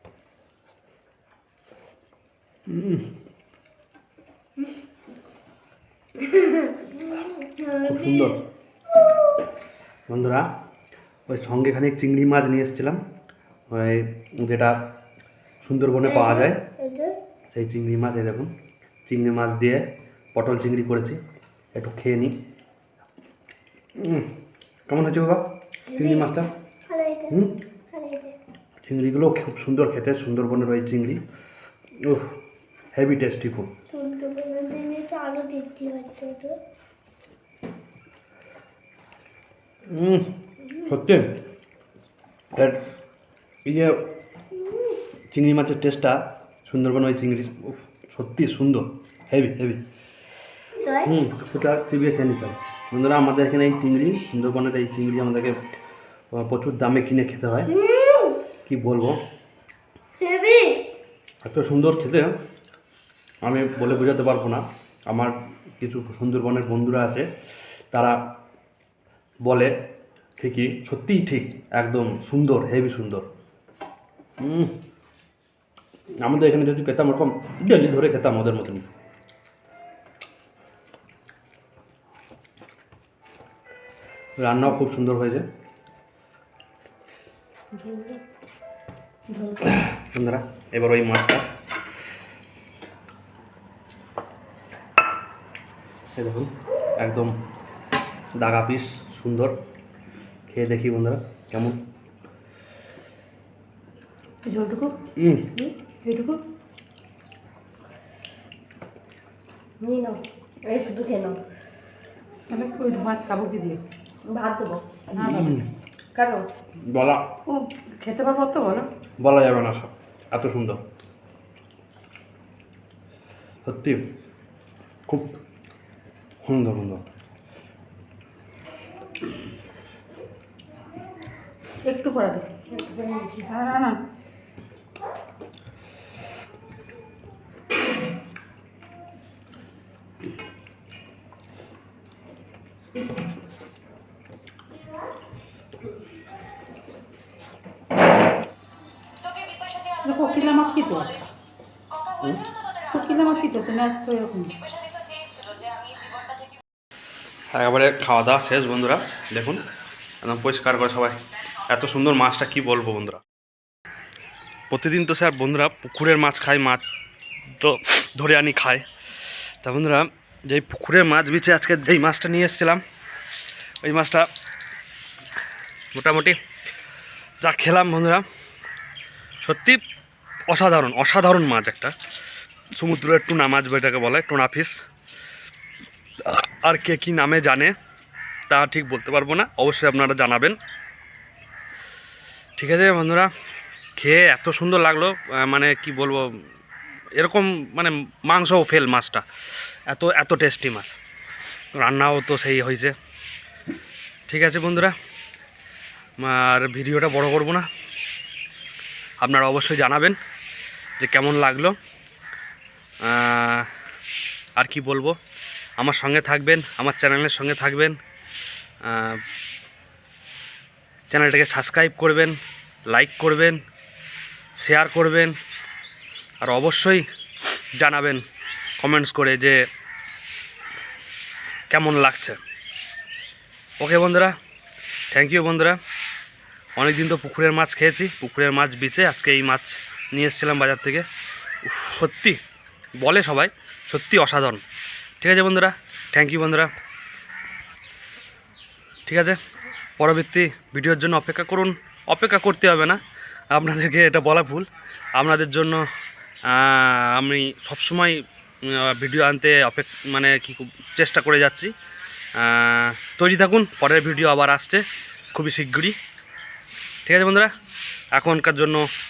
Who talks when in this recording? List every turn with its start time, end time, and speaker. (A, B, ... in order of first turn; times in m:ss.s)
0:02.7-0:03.1 A
0:06.2-0:08.4 B
0:07.8-0:08.4 A
0:10.1-0:10.5 A
0:11.3-0:13.0 A
0:13.7-0:14.8 A
0:15.6-0:16.6 A
0:16.1-0:17.2 B
0:17.5-0:18.5 A
0:19.0-0:21.2 A
0:21.7-0:22.4 A
0:24.0-0:24.3 A
0:24.9-0:26.5 A
0:25.9-0:26.3 B
0:26.9-0:27.4 B
0:27.3-0:27.6 A
0:27.9-0:28.4 B
0:28.8-0:31.2 A
0:32.0-0:32.4 A
0:32.9-0:33.7 A
0:33.9-0:36.6 B
0:39.9-0:41.4 A
0:42.5-0:42.8 A
0:43.6-0:44.1 A
0:45.3-0:49.8 A
0:50.8-0:51.1 B
0:51.0-0:55.6 A
0:56.3-0:57.7 A
0:57.7-0:58.4 B
0:58.6-0:59.2 A
1:00.2-1:00.9 B
1:01.4-1:02.4 A
1:03.4-1:07.3 A
1:07.9-1:08.3 A
1:09.4-1:09.8 A
1:10.4-1:13.2 A
1:14.4-1:14.8 A
1:16.2-1:18.9 A
1:24.4-1:25.4 A
1:27.8-1:28.2 B
1:29.3-1:29.6 B
1:29.7-1:31.4 A
1:36.2-1:37.3 A
1:38.4-1:39.6 A
1:40.5-1:41.8 A
1:44.5-1:44.9 C
1:45.2-1:45.5 A
1:45.6-1:46.4 C
1:49.8-1:51.4 B
1:52.5-1:53.8 C
1:54.3-1:55.0 B
1:55.2-1:55.6 C
1:55.2-1:55.7 A
1:56.2-1:56.4 B
1:56.9-1:57.3 A
1:57.5-1:58.9 C
1:59.2-2:00.8 A
2:03.6-2:04.1 A
2:05.1-2:05.4 A
2:06.4-2:07.1 A
2:11.8-2:14.0 C
2:30.0-2:31.2 C
2:32.2-2:32.5 A
2:32.8-2:34.6 C
2:37.5-2:39.6 A
2:40.2-2:43.2 A
2:44.7-2:46.8 A
2:47.6-2:48.9 A
2:49.6-2:52.8 A
2:53.8-2:54.3 A
2:55.9-2:56.4 A
2:57.4-2:58.2 A
2:59.4-2:59.8 A
3:00.5-3:01.9 A
3:02.7-3:04.7 A
3:06.2-3:07.7 A
3:08.5-3:10.6 A
3:12.6-3:13.3 A
3:14.0-3:16.4 A
3:17.1-3:19.2 A
3:19.9-3:21.0 A
3:21.8-3:22.9 A
3:24.3-3:25.0 A
3:26.2-3:27.7 A
3:29.2-3:30.2 A
3:31.0-3:31.8 A
3:33.0-3:33.7 A
3:34.6-3:35.2 A
3:35.8-3:38.0 A
3:38.8-3:39.2 A
3:41.1-3:42.4 A
3:42.9-3:43.6 A
3:44.6-3:45.3 A
3:46.4-3:47.0 A
3:47.8-3:48.2 A
3:48.8-3:49.6 A
3:51.7-3:52.4 A
3:53.8-3:54.4 A
3:55.1-3:55.8 A
3:56.8-4:01.1 A
4:01.6-4:02.4 A
4:03.0-4:04.6 A
4:05.2-4:06.7 A
4:09.0-4:09.4 A
4:10.0-4:13.0 A
4:13.5-4:15.8 A
4:16.5-4:21.7 A
4:22.4-4:24.8 A
4:25.3-4:26.0 A
4:27.0-4:27.5 A
4:28.1-4:28.8 A